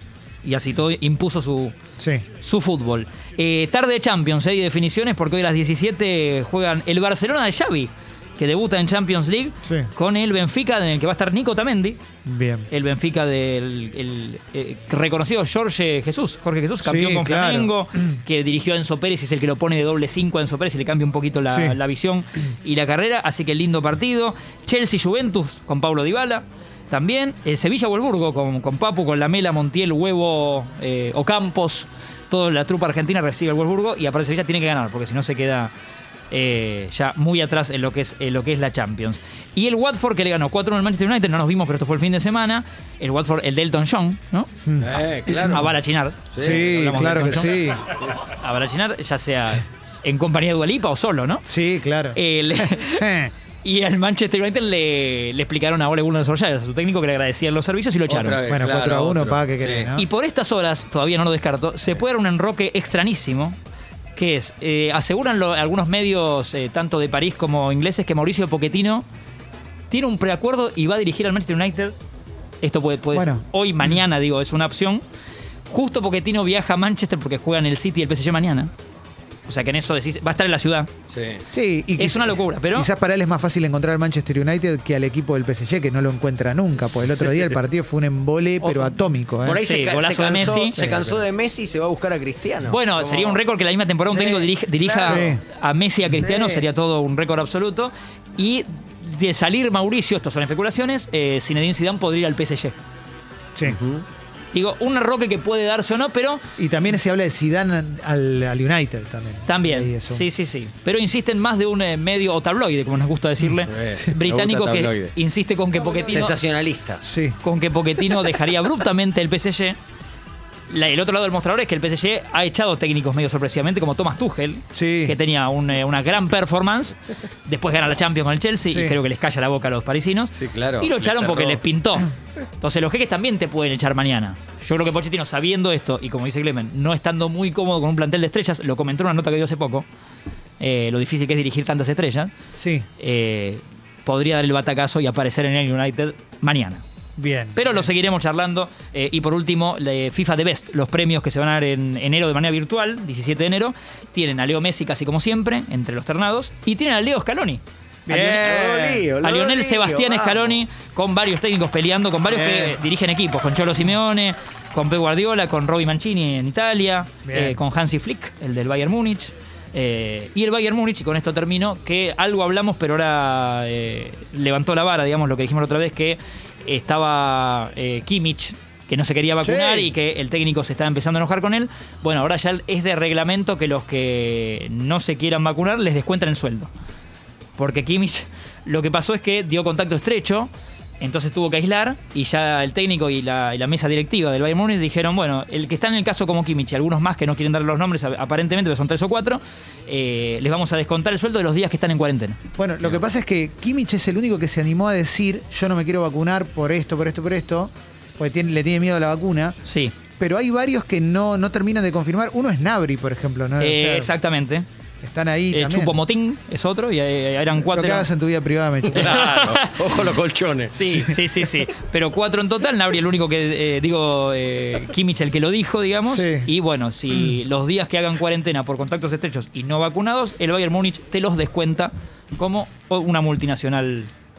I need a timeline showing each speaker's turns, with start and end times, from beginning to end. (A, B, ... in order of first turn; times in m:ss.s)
0:00.4-0:01.7 A
0:02.0-0:02.2 B
0:02.4-0:12.0 A
0:09.6-0:09.9 B
0:12.3-0:12.7 B
0:12.7-0:35.7 A
0:16.8-0:18.2 B
0:21.5-0:21.8 B
0:36.3-0:51.4 A
0:44.6-0:45.0 B
0:44.8-0:45.7 C
0:46.3-0:46.7 C
0:46.4-0:47.8 B
0:51.4-0:53.3 B
0:52.1-0:53.1 A
0:53.6-0:58.4 A
0:58.1-0:59.9 C
0:58.5-1:00.1 B
1:00.0-1:03.6 A
1:04.2-1:09.0 A
1:09.9-1:12.0 A
1:12.6-1:15.0 A
1:13.1-1:13.4 B
1:15.7-1:18.7 A
1:19.5-1:20.9 A
1:21.1-1:21.4 C
1:21.5-1:29.6 B
1:22.0-1:22.9 A
1:27.0-1:27.5 C
1:29.4-1:33.4 C
1:29.6-1:30.8 A
1:30.6-1:31.2 B
1:32.7-1:42.8 A
1:34.3-1:35.3 C
1:35.0-1:35.4 B
1:36.1-1:36.6 B
1:43.6-1:44.0 C
1:44.5-1:46.4 A
1:46.6-1:50.3 B
1:49.5-1:56.4 A
1:53.7-1:55.1 C
1:56.1-1:57.0 C
1:57.0-1:57.4 B
1:57.4-1:59.8 A
2:00.7-2:19.9 A
2:04.7-2:05.2 B
2:08.6-2:09.0 B
2:10.4-2:11.6 C
2:20.6-2:22.3 A
2:22.6-2:22.9 B
2:23.0-2:26.8 A
2:27.2-2:27.9 B
2:27.6-2:37.6 A
2:38.1-2:39.1 B
2:38.1-2:40.6 C
2:39.2-3:06.7 A
2:42.2-2:42.8 B
2:47.2-2:47.6 B
2:59.4-2:59.9 B
3:07.6-3:22.4 A
3:22.6-3:29.6 B
3:29.6-3:30.0 A
3:30.2-3:34.1 B
3:33.6-3:34.7 A
3:35.0-3:36.0 B
3:35.5-3:38.1 A
3:37.6-3:39.2 B
3:38.9-3:40.8 C
3:39.0-3:39.9 A
3:40.7-3:54.1 A
3:40.8-3:41.1 B
3:46.0-3:46.5 B